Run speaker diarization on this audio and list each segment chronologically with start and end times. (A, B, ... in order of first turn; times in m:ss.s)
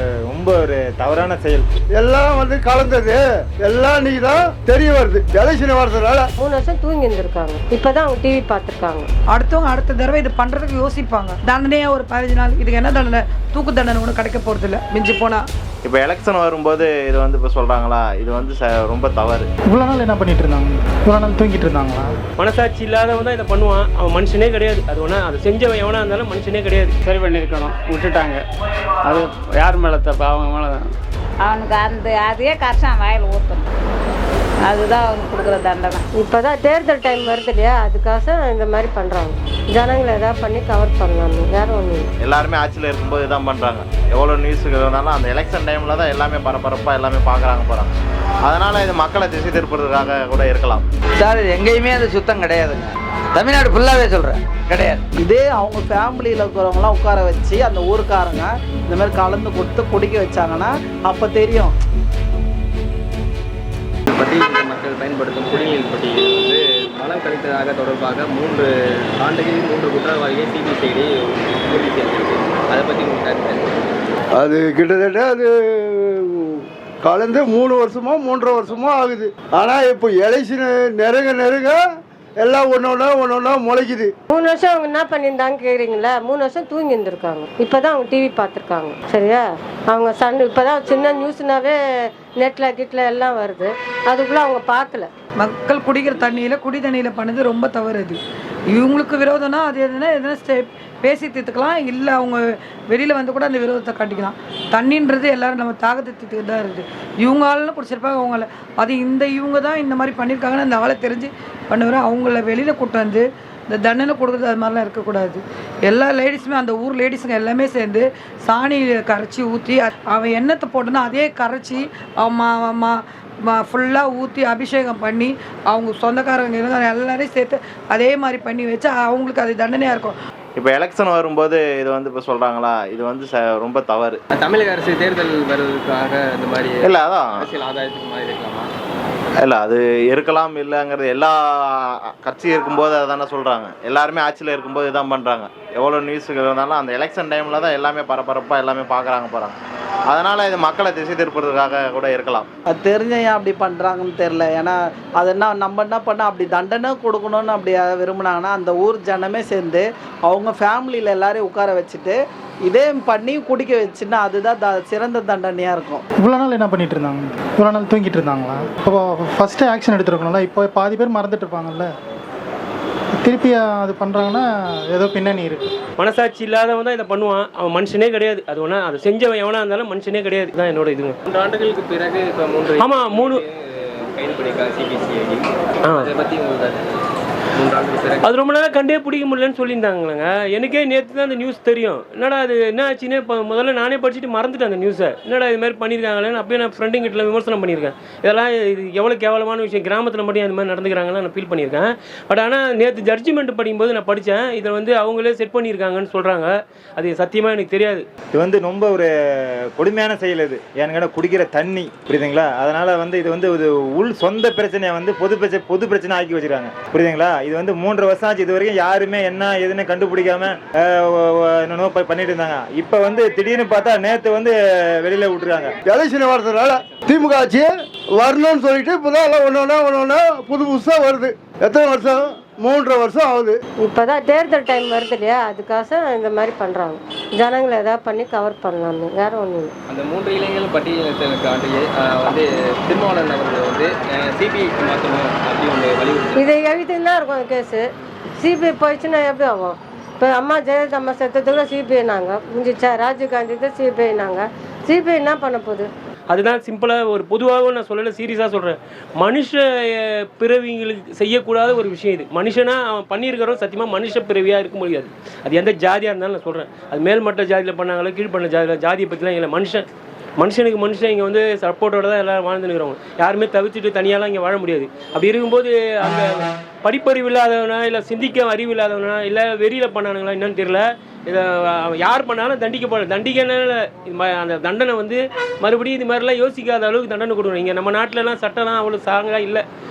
0:00.3-0:01.6 A
0:02.0-0:06.3 B
0:06.4-0:09.1 C
0:09.3-0:15.4 D
0:15.8-0:19.5 E
0:19.7-0:22.2 F
0:22.4-0:27.0 G
0:31.4-0:33.6 H
0:34.6-0:36.0 H
0:36.2-0:42.1 C
0:42.2-0:47.9 E
0:48.5-0:50.8 E
0:51.2-0:55.0 I
0:55.2-1:01.7 J
1:04.1-1:13.7 K
1:14.4-1:21.8 B
1:22.4-1:24.1 B
1:24.3-1:31.8 C
1:32.4-1:35.1 C
1:35.4-1:38.2 D
1:38.7-2:03.0 D
2:03.5-2:10.2 D
2:10.6-2:14.2 E
2:14.3-2:18.7 K
2:16.8-2:17.2 E
2:19.4-2:21.3 E
2:22.2-2:29.6 E
2:30.1-2:32.5 E
2:32.7-2:42.2 J
2:42.7-2:46.0 J
2:46.2-2:51.9 F
2:53.2-2:55.8 F
2:56.0-3:01.2 G
3:01.3-3:06.9 K
3:02.8-3:03.4 G
3:07.6-3:08.3 K
3:08.2-3:28.1 G
3:28.3-3:29.1 A
3:29.8-3:45.7 A
3:45.8-3:53.6 B
3:53.8-3:59.7 C
3:59.9-4:06.5 K
4:06.3-4:07.8 C
4:08.4-4:15.9 C
4:16.3-4:29.9 G
4:30.4-4:49.6 G